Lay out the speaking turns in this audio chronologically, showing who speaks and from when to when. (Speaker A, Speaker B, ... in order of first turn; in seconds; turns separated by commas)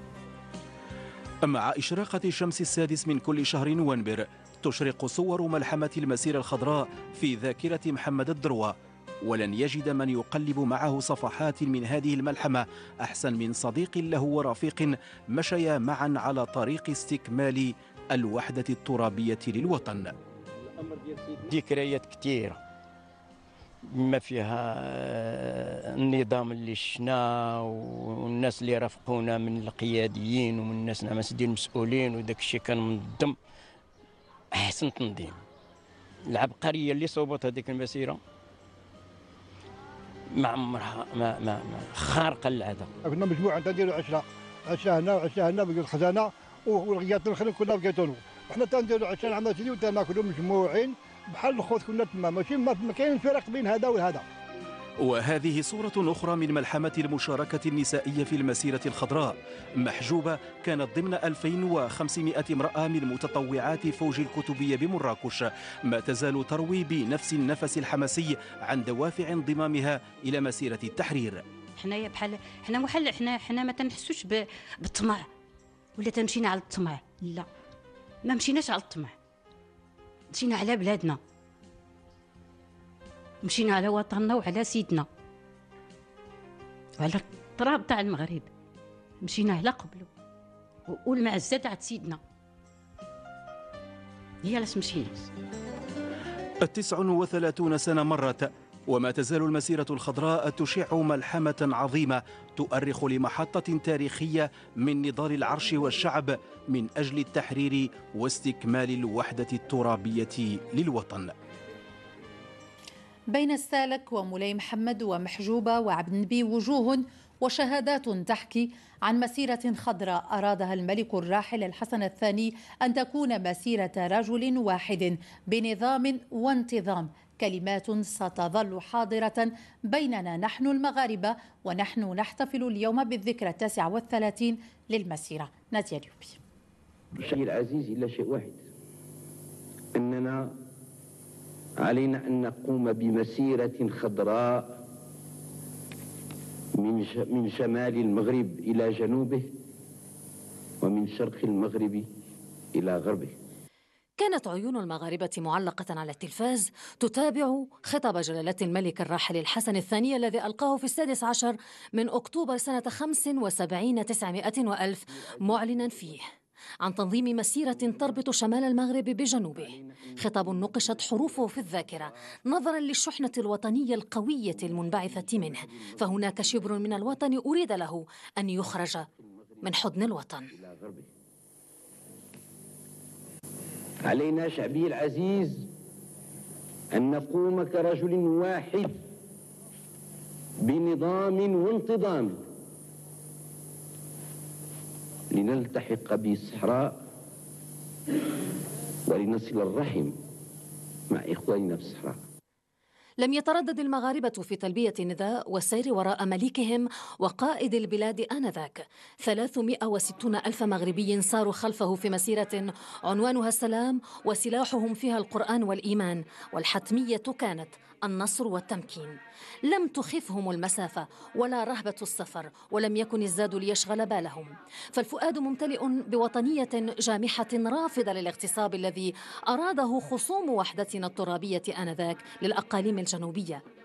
Speaker A: 1.5-20.1, Speaker B: 21.5-22.6, Speaker B: 24.1-33.4, Speaker B: 34.6-35.4, Speaker B: 36.4-38.2, Speaker B: 40.5-42.9, Speaker C: 43.0-54.2, Speaker A: 55.0-71.4, Speaker D: 71.8-75.3, Speaker D: 76.0-77.5, Speaker D: 78.2-79.1, Speaker D: 80.3-81.2, Speaker D: 83.4-85.1, Speaker D: 87.0-88.5, Speaker D: 89.2-90.1, Speaker D: 90.9-92.2, Speaker D: 94.4-95.3, Speaker A: 96.6-111.3, Speaker E: 113.3-136.4, Speaker F: 137.2-138.6, Speaker F: 139.9-140.6, Speaker F: 141.8-144.8, Speaker F: 146.8-149.5, Speaker F: 150.8-152.1, Speaker F: 152.7-153.4, Speaker G: 154.2-166.2, Speaker F: 165.3-166.1, Speaker G: 166.8-179.1, Speaker F: 167.8-168.3, Speaker F: 169.6-172.1, Speaker F: 174.5-177.0, Speaker G: 179.6-180.4, Speaker F: 180.5-181.1, Speaker F: 184.0-185.7, Speaker F: 186.9-189.0, Speaker F: 190.6-192.4, Speaker F: 195.3-197.0, Speaker F: 199.1-200.2, Speaker F: 201.1-202.2, Speaker G: 203.2-219.2, Speaker G: 219.7-233.6